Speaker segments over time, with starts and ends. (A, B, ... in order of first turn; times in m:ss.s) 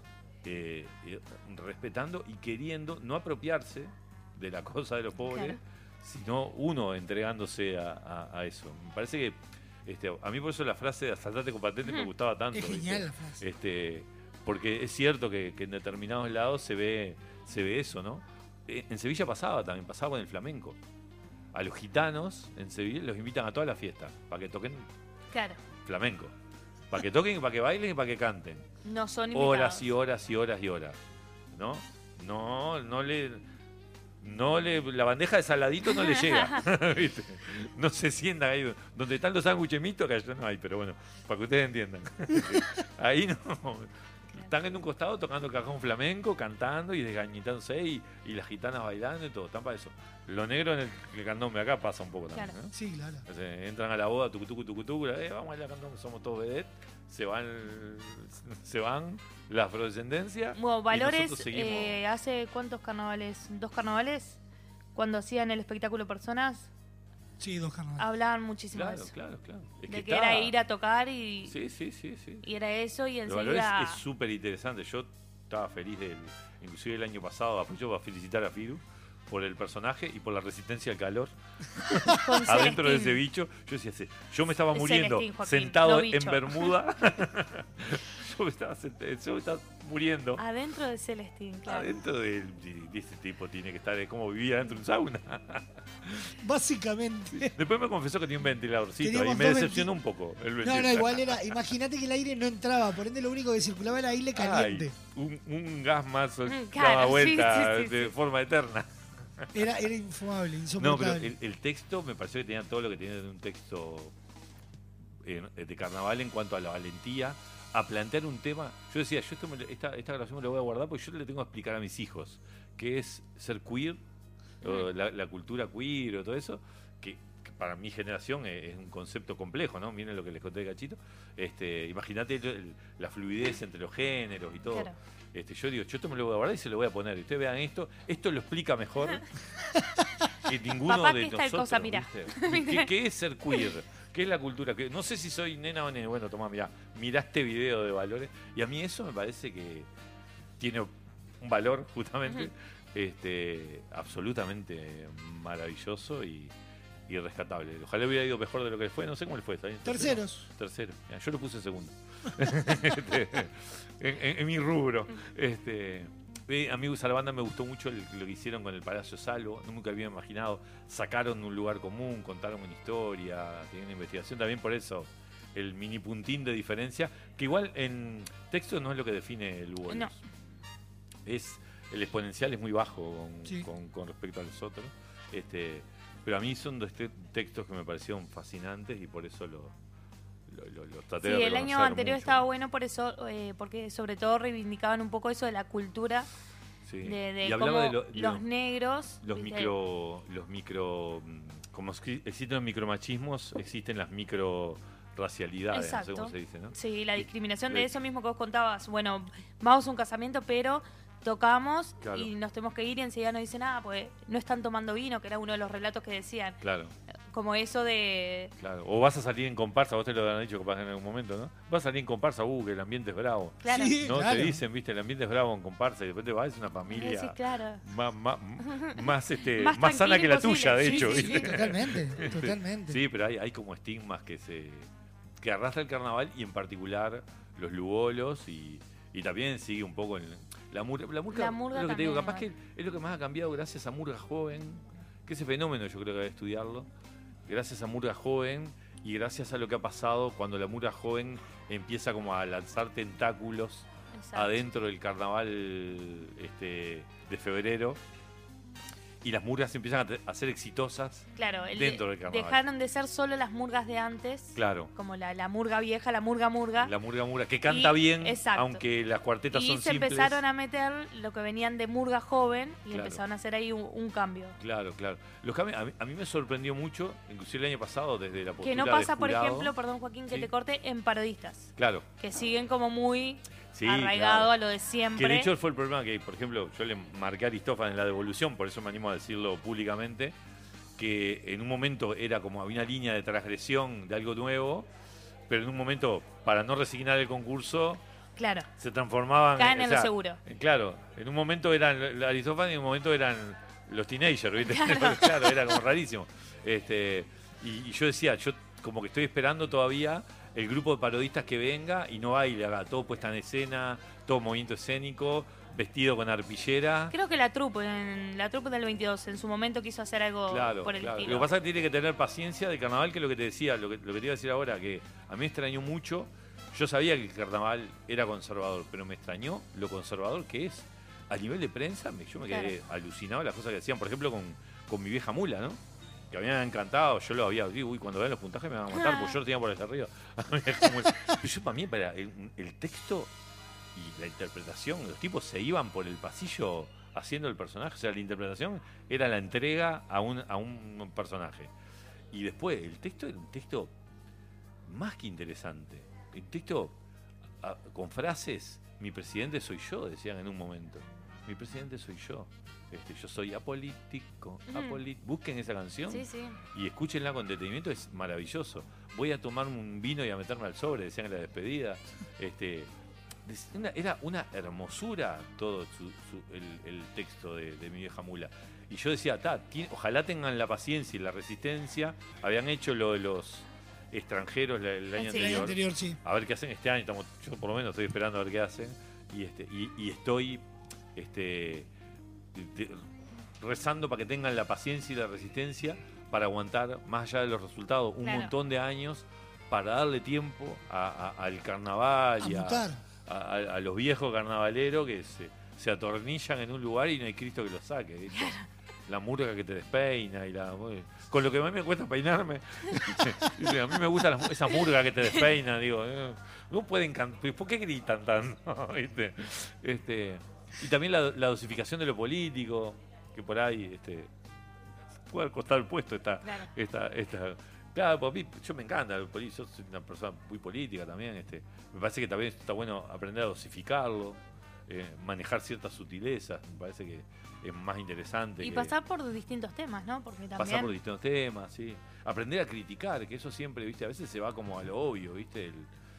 0:00.4-0:20.8 A
0:05.2-0:05.6 B
0:11.8-0:12.1 B
0:12.5-0:13.4 C
0:21.5-0:24.8 A
0:25.3-0:25.6 B
0:25.8-0:26.3 A
0:26.9-0:28.6 A
0:28.8-0:29.9 B
0:29.3-0:31.0 A
0:31.5-0:33.4 A
0:34.2-0:52.7 A
0:35.8-0:36.6 B
0:52.7-0:53.2 C
0:53.3-1:02.0 A
1:00.5-1:04.4 B
1:04.9-1:06.7 B
1:07.4-1:08.0 C
1:08.0-1:09.1 B
1:08.7-1:10.5 A
1:09.9-1:11.6 B
1:11.5-1:12.4 A
1:12.4-1:14.0 B
1:13.3-1:21.3 A
1:22.1-1:23.2 B
1:22.4-1:30.4 A
1:24.7-1:26.7 B
1:30.4-1:31.9 B
1:31.6-1:36.2 A
1:36.4-1:37.5 C
1:37.4-1:41.5 A
1:39.0-1:39.9 C
1:40.6-1:44.9 C
1:44.3-1:48.9 A
1:46.4-1:48.1 B
1:49.5-1:51.3 C
1:50.8-1:54.1 A
1:55.2-2:04.0 A
2:04.6-2:19.2 A
2:04.6-2:04.9 B
2:14.7-2:14.9 B
2:20.5-2:29.9 A
2:20.9-2:22.9 B
2:30.6-2:36.5 A
2:37.1-3:00.2 A
2:39.8-2:40.5 C
3:01.2-3:09.7 A
3:10.5-3:12.4 A
3:11.2-3:16.3 B
3:16.8-3:18.4 A
3:17.0-3:19.7 B
3:19.2-3:27.9 A
3:25.7-3:36.6 B
3:32.0-3:32.3 A
3:36.6-3:36.9 A
3:37.3-3:38.5 B
3:38.6-3:54.9 A
3:43.6-3:43.9 B
3:43.6-3:44.6 C
3:46.9-3:47.8 B
3:48.6-3:51.6 B
3:50.8-3:53.0 C
3:55.4-4:06.9 A
4:01.3-4:02.5 B
4:07.5-4:18.0 A
4:14.2-4:14.6 B
4:19.2-4:22.6 A
4:21.3-4:26.9 B
4:24.5-4:24.9 A
4:26.8-4:30.4 A
4:27.6-4:28.8 B
4:29.5-4:34.6 B
4:32.9-4:33.2 A
4:34.6-4:39.7 A
4:38.6-4:45.5 B
4:41.8-4:42.0 A
4:43.7-4:44.5 A
4:45.2-4:50.3 A
4:51.0-4:54.9 A
4:55.5-4:58.0 A
4:58.4-4:58.7 B
4:58.8-5:17.1 A
4:59.6-5:00.4 B
5:04.6-5:05.6 B
5:17.1-5:21.5 B
5:20.5-5:35.8 A
5:32.5-5:32.8 B
5:36.3-5:43.3 A
5:38.9-5:39.4 B
5:43.9-5:51.7 A
5:52.3-5:53.9 A
5:54.8-5:56.9 A
5:57.6-6:12.9 A
6:04.7-6:05.0 B
6:06.1-6:06.6 B
6:13.4-6:30.6 A
6:25.2-6:25.7 B
6:25.3-6:26.2 C
6:31.2-6:31.9 A
6:32.5-6:33.0 A
6:33.6-6:48.6 A
6:38.2-6:38.5 B
6:42.4-6:43.0 C
6:48.3-6:48.6 B
6:49.1-7:04.3 A
7:05.3-7:18.9 A
7:06.4-7:06.7 B
7:18.6-7:20.9 B
7:20.6-7:25.9 A